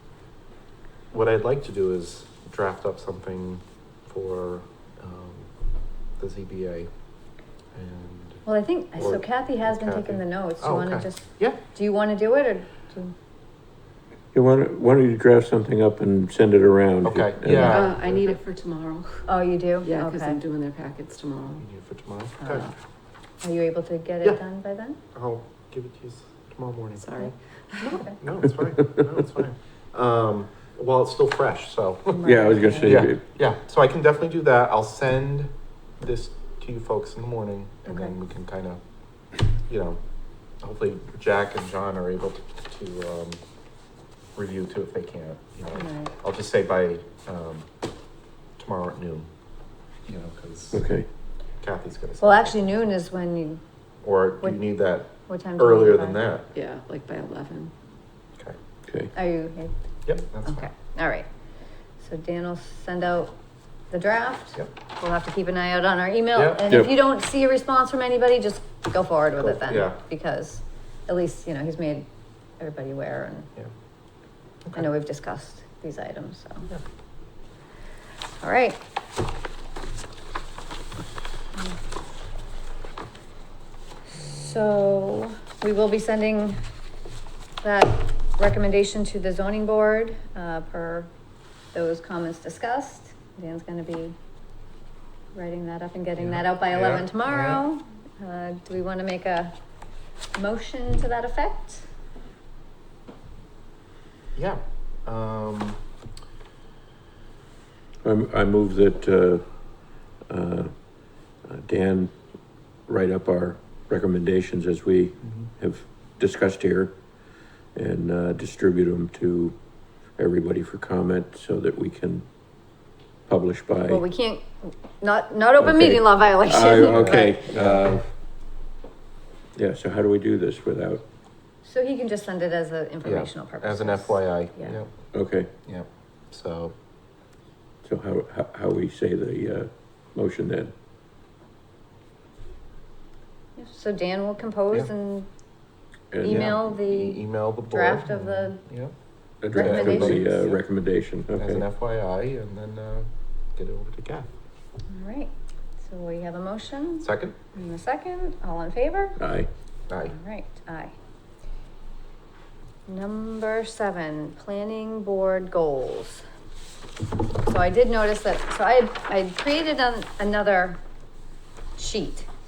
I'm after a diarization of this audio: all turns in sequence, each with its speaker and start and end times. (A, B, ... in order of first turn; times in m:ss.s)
0:01.1-0:05.5 A
0:06.2-0:06.9 A
0:07.7-0:08.4 A
0:08.4-0:13.1 B
0:09.0-0:11.6 A
0:14.3-0:17.9 C
0:17.0-0:18.4 A
0:17.4-0:17.8 B
0:17.6-0:19.3 D
0:19.3-0:20.4 B
0:19.8-0:21.6 D
0:21.6-0:22.7 A
0:23.4-0:25.0 B
0:25.1-0:27.3 A
0:27.0-0:28.0 D
0:27.8-0:28.2 B
0:28.0-0:38.8 A
0:32.1-0:33.0 B
0:32.2-0:33.2 C
0:37.9-0:38.1 B
0:39.7-0:40.0 A
0:40.6-0:43.4 A
0:44.4-0:47.7 A
0:45.8-0:46.1 B
0:48.6-0:49.3 A
0:50.1-0:50.8 A
0:50.7-0:51.1 C
0:51.6-0:52.8 A
0:52.2-0:53.6 B
0:54.0-0:56.5 A
0:55.3-0:56.2 B
0:56.5-0:57.7 D
0:59.1-0:59.8 B
1:00.1-1:00.7 A
1:00.4-1:01.3 B
1:02.0-1:03.3 B
1:03.9-1:12.1 B
1:06.4-1:06.6 A
1:09.4-1:10.0 A
1:12.6-1:13.5 B
1:14.7-1:16.7 B
1:18.4-1:18.8 B
1:24.2-1:26.6 B
1:27.6-1:31.1 B
1:31.7-1:34.2 B
1:35.3-1:39.6 B
1:36.2-1:37.6 A
1:40.4-1:41.9 B
1:44.4-1:45.8 A
1:48.0-1:52.2 C
1:52.9-1:57.0 C
1:57.8-1:59.6 C
2:00.1-2:02.3 C
2:03.3-2:04.0 C
2:03.9-2:07.4 B
2:05.6-2:08.1 C
2:06.9-2:07.9 A
2:09.6-2:11.0 C
2:11.6-2:14.8 B
2:13.0-2:14.9 A
2:15.1-2:15.5 C
2:15.6-2:16.8 A
2:17.8-2:20.7 C
2:23.6-2:25.3 B
2:26.1-2:26.5 C
2:26.2-2:28.6 B
2:26.2-2:28.9 A
2:29.4-2:31.6 C
2:29.5-2:30.6 A
2:29.5-2:30.3 B
2:31.4-2:34.3 A
2:34.9-2:39.2 B
2:37.0-2:37.4 A
2:39.2-2:39.5 C
2:39.9-2:40.2 A
2:40.1-2:40.9 B
2:42.9-2:46.2 B
2:47.4-2:50.8 B
2:51.8-2:52.3 B